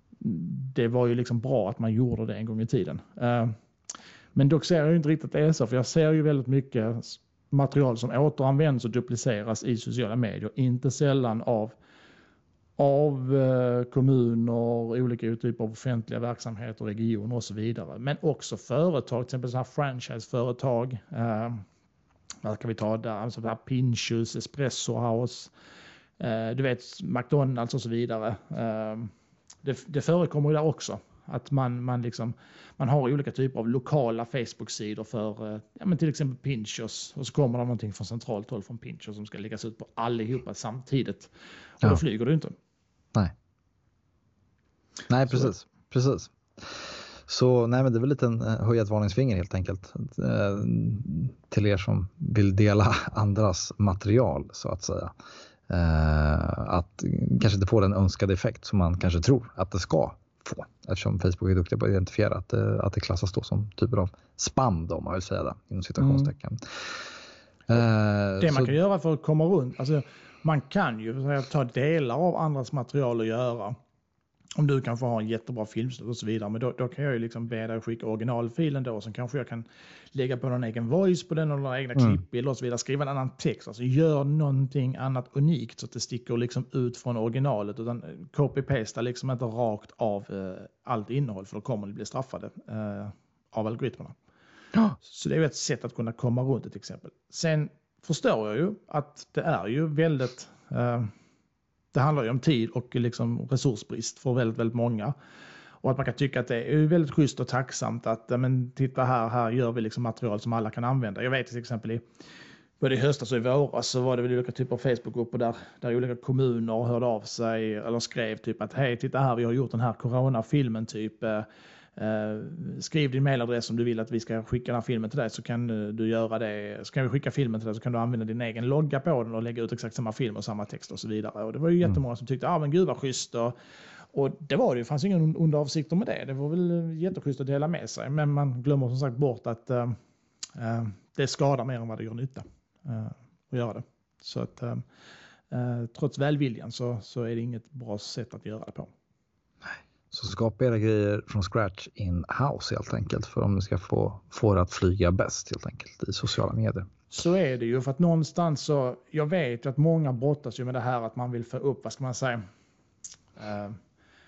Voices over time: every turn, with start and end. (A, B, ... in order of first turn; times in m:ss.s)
0:00.2-0:03.5 A
0:04.4-0:11.8 A
0:12.8-0:21.6 A
0:22.4-0:25.5 A
0:26.2-0:29.1 A
0:29.6-0:42.6 A
0:45.1-0:55.1 B
0:55.7-1:06.6 B
1:06.0-1:06.3 A
1:07.7-1:08.7 B
1:08.4-1:13.8 A
1:14.6-1:34.2 A
1:35.0-1:41.1 A
1:41.9-1:45.1 A
1:45.8-1:52.0 A
1:52.8-2:13.6 A
2:14.1-2:20.0 A
2:20.6-2:24.8 A
2:25.5-2:28.9 A
2:29.7-2:36.9 B
2:37.1-2:42.4 A
2:43.4-2:43.8 A